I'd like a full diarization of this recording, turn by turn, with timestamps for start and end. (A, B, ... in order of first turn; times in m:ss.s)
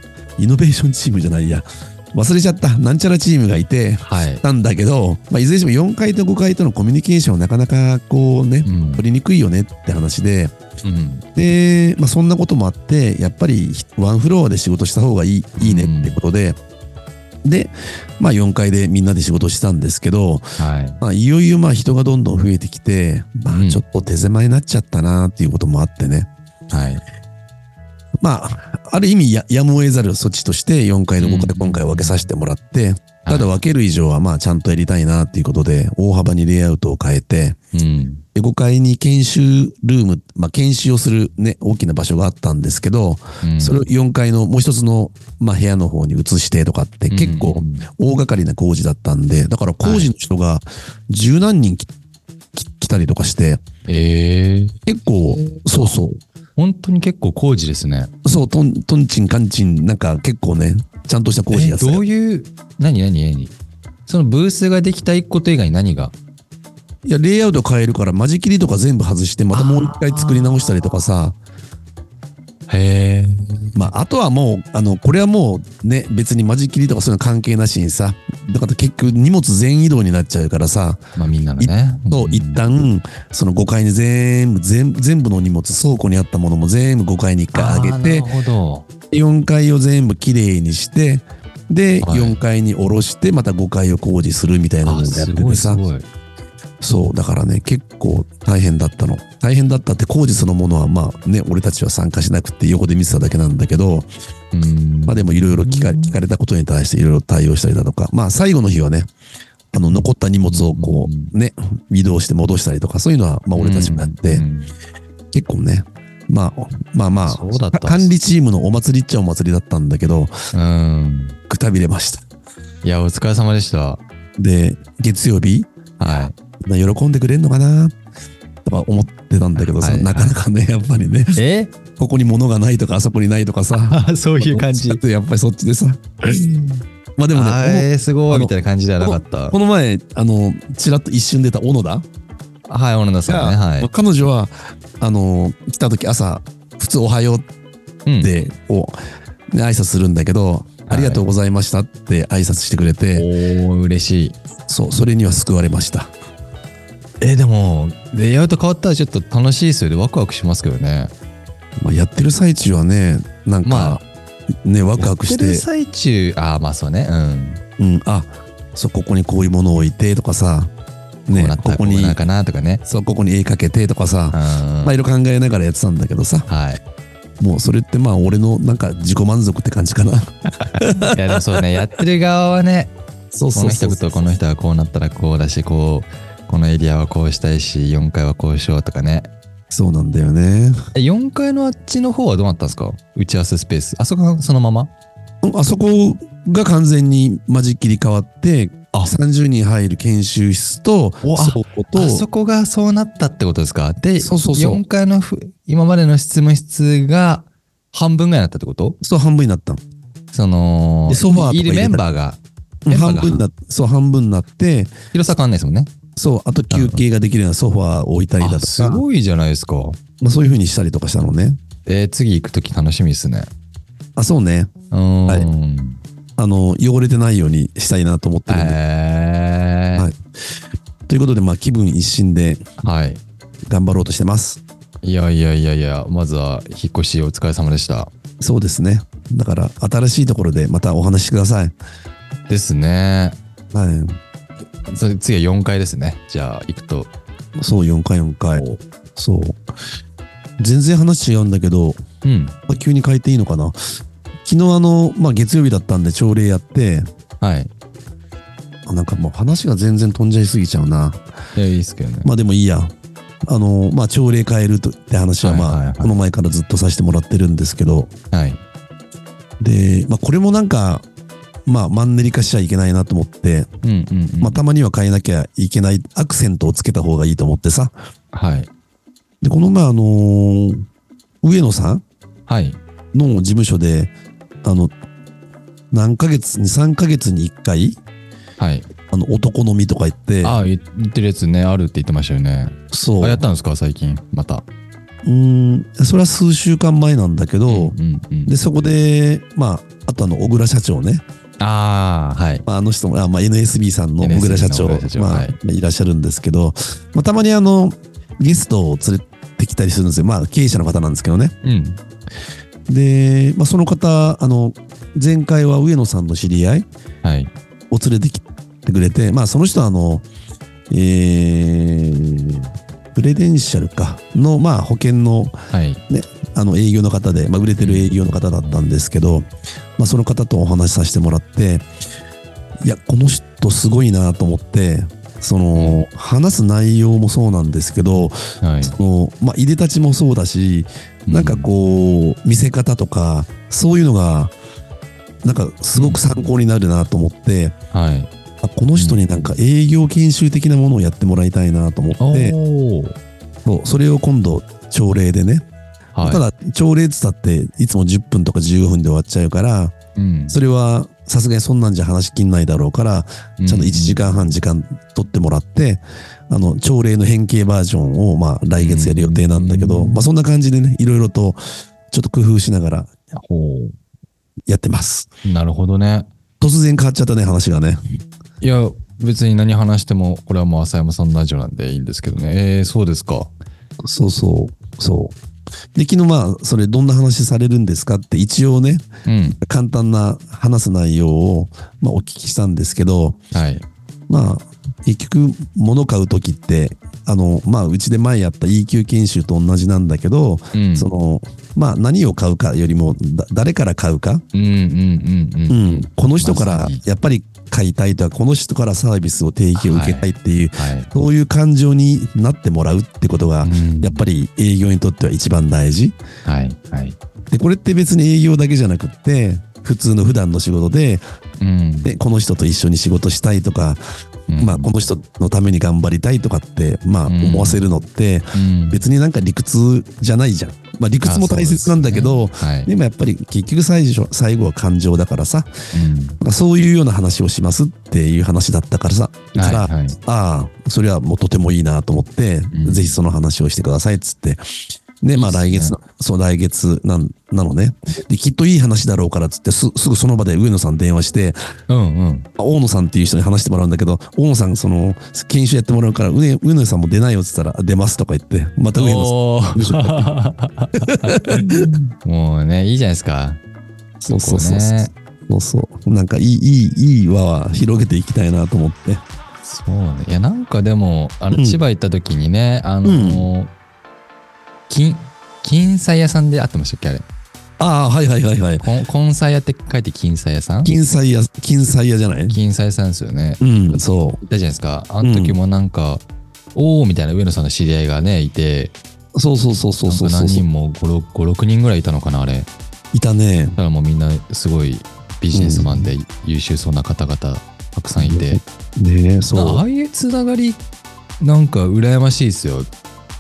0:00.4-0:10.5 A
0:04.1-0:04.4 B
0:08.6-0:09.0 B
0:10.8-0:11.2 B
0:11.4-0:16.6 A
0:15.6-0:16.2 B
0:17.4-0:20.4 A
0:20.6-0:21.0 B
0:21.0-0:26.3 A
0:23.5-0:23.8 B
0:26.7-0:27.0 B
0:28.2-0:37.6 A
0:31.2-0:32.2 B
0:37.7-0:38.2 B
0:38.3-0:51.9 A
0:43.4-0:43.8 B
0:47.1-0:47.8 B
0:49.8-0:50.1 B
0:52.5-0:53.6 A
0:53.9-0:56.0 B
0:54.9-0:56.2 A
0:56.6-0:58.1 B
0:58.2-1:02.0 A
1:01.5-1:03.5 B
1:04.1-1:06.1 B
1:07.0-1:11.4 A
1:09.5-1:11.1 B
1:12.7-1:13.9 B
1:13.7-1:21.0 A
1:21.2-1:22.6 B
1:21.6-1:28.3 A
1:27.5-1:28.8 B
1:29.1-1:35.8 A
1:32.0-1:32.4 B
1:34.8-1:36.1 B
1:36.8-1:44.1 A
1:44.5-1:46.2 B
1:45.1-1:49.1 A
1:49.7-1:54.4 A
1:49.9-1:51.3 B
1:53.6-1:54.7 B
1:55.3-2:00.3 A
1:57.2-1:58.1 B
2:00.5-2:01.4 B
2:01.5-2:02.2 A
2:02.8-2:04.0 B
2:04.4-2:05.7 A
2:06.0-2:06.3 B
2:06.6-2:07.9 A
2:08.6-2:11.4 A
2:09.7-2:10.3 B
2:11.4-2:11.7 B
2:12.0-2:22.0 A
2:13.7-2:15.0 B
2:17.3-2:19.6 B
2:22.7-2:23.9 B
2:23.3-2:27.5 A
2:28.0-2:28.3 B
2:28.2-2:29.0 A
2:29.5-2:33.3 A
2:30.9-2:31.2 B
2:33.1-2:34.4 B
2:34.7-2:36.1 A
2:37.2-2:41.1 B
2:41.8-2:44.0 A
2:43.6-2:44.0 B
2:44.6-2:45.6 A
2:45.0-2:47.6 B
2:47.8-2:50.7 A
2:51.3-2:52.2 A
2:51.3-2:52.8 B
2:52.8-2:56.5 A
2:54.3-2:54.9 B
2:56.5-2:56.8 B
2:57.4-3:01.4 A
3:00.7-3:02.9 B
3:03.3-3:04.3 A
3:03.5-3:09.3 B
3:09.7-3:10.8 A
3:10.9-3:14.9 B
3:15.4-3:22.2 A
3:21.2-3:29.0 B
3:24.2-3:24.8 A
3:29.0-3:29.8 A
3:30.3-3:33.4 B
3:31.1-3:32.0 A
3:32.8-3:34.9 A
3:35.1-3:35.9 B
3:36.2-3:39.0 A
3:36.7-3:37.0 B
3:38.4-3:40.0 B
3:40.2-3:41.6 A
3:41.8-3:43.5 B
3:44.2-3:44.7 A
3:44.9-3:46.0 B
3:46.4-3:48.8 A
3:48.5-3:50.1 B
3:51.1-3:52.6 A
3:52.8-3:53.2 B
3:53.7-3:54.6 A
3:55.0-3:58.1 B
3:58.4-4:01.7 A
4:02.5-4:03.4 B
4:03.7-4:04.2 A
4:04.9-4:07.1 B
4:07.6-4:09.6 A
4:08.6-4:08.8 B
4:10.6-4:12.0 A
4:12.2-4:12.6 B
4:12.7-4:13.8 A
4:14.4-4:17.1 A
4:17.4-4:17.7 B
4:18.8-4:21.2 A
4:21.5-4:22.3 B
4:22.2-4:22.9 A
4:23.4-4:28.1 A
4:25.4-4:26.1 B
4:28.3-4:28.6 B
4:29.6-4:31.0 A
4:31.6-4:33.7 A
4:33.8-4:34.6 B
4:34.4-4:37.9 A
4:38.3-4:38.7 B
4:39.4-4:40.8 A
4:41.4-4:42.0 A
4:42.5-4:42.8 B
4:43.1-4:44.1 A
4:44.6-4:44.9 A
4:45.9-4:48.0 A
4:48.6-4:48.8 B
4:49.1-4:50.6 A
4:50.4-4:54.6 B
4:52.9-4:53.4 A
4:55.2-4:57.9 A
4:57.7-4:58.5 B
4:58.4-5:01.2 A
5:01.6-5:02.6 B
5:02.6-5:11.5 A
5:04.2-5:05.5 B
5:11.6-5:12.0 B
5:12.9-5:16.8 A
5:17.2-5:17.5 B
5:17.9-5:20.2 A
5:20.9-5:25.6 A
5:25.7-5:26.0 B
5:26.1-5:31.8 A
5:27.8-5:28.2 B
5:32.8-5:44.5 A
5:35.7-5:36.0 B
5:38.6-5:39.0 B
5:41.3-5:41.7 B
5:45.4-5:47.7 A
5:45.9-5:46.5 B
5:47.9-5:48.3 B
5:48.6-5:52.6 A
5:49.0-5:49.5 B
5:52.2-5:53.2 B
5:53.6-5:55.6 A
5:56.1-5:56.4 B
5:56.2-5:59.9 A
6:00.2-6:00.6 B
6:00.5-6:11.6 A
6:03.6-6:04.5 B
6:08.8-6:10.3 B
6:12.1-6:13.1 A
6:13.3-6:14.0 B
6:14.7-6:15.3 A
6:15.4-6:16.3 B
6:16.6-6:18.0 A
6:18.6-6:23.5 B
6:24.0-6:25.4 A
6:25.9-6:33.4 A
6:29.2-6:29.6 B
6:33.5-6:33.8 B
6:34.3-6:44.4 A
6:40.7-6:41.1 B
6:44.5-6:47.0 B
6:45.7-6:56.1 A
6:49.7-6:51.1 B
6:53.6-6:54.2 B
6:56.4-6:57.2 B
6:57.5-7:01.2 A
7:01.6-7:02.1 B
7:02.0-7:04.0 A
7:04.5-7:04.9 B
7:04.6-7:15.7 A
7:07.3-7:07.8 B
7:08.5-7:09.0 B
7:11.2-7:12.9 B
7:15.9-7:16.4 B
7:16.4-7:24.6 A
7:19.5-7:20.2 B
7:22.7-7:23.2 B
7:25.2-7:31.6 A
7:25.3-7:26.0 B
7:31.9-7:32.5 B
7:32.6-7:40.3 A
7:39.0-7:43.6 B
7:41.1-7:41.9 A
7:44.2-7:49.2 A
7:44.3-7:45.1 B
7:49.6-7:53.7 B
7:51.5-7:51.8 A
7:53.0-7:53.5 A
7:54.9-7:57.2 B
7:57.8-7:58.8 A
7:58.8-8:00.9 B
8:00.8-8:02.6 A
8:02.5-8:06.2 B
8:03.6-8:04.4 A
8:05.2-8:05.6 A
8:06.7-8:08.9 B
8:09.3-8:10.6 A
8:10.1-8:12.7 B
8:13.1-8:13.8 A
8:13.8-8:18.6 B
8:15.5-8:16.1 A
8:18.2-8:19.8 A
8:19.6-8:20.8 B
8:21.4-8:22.9 B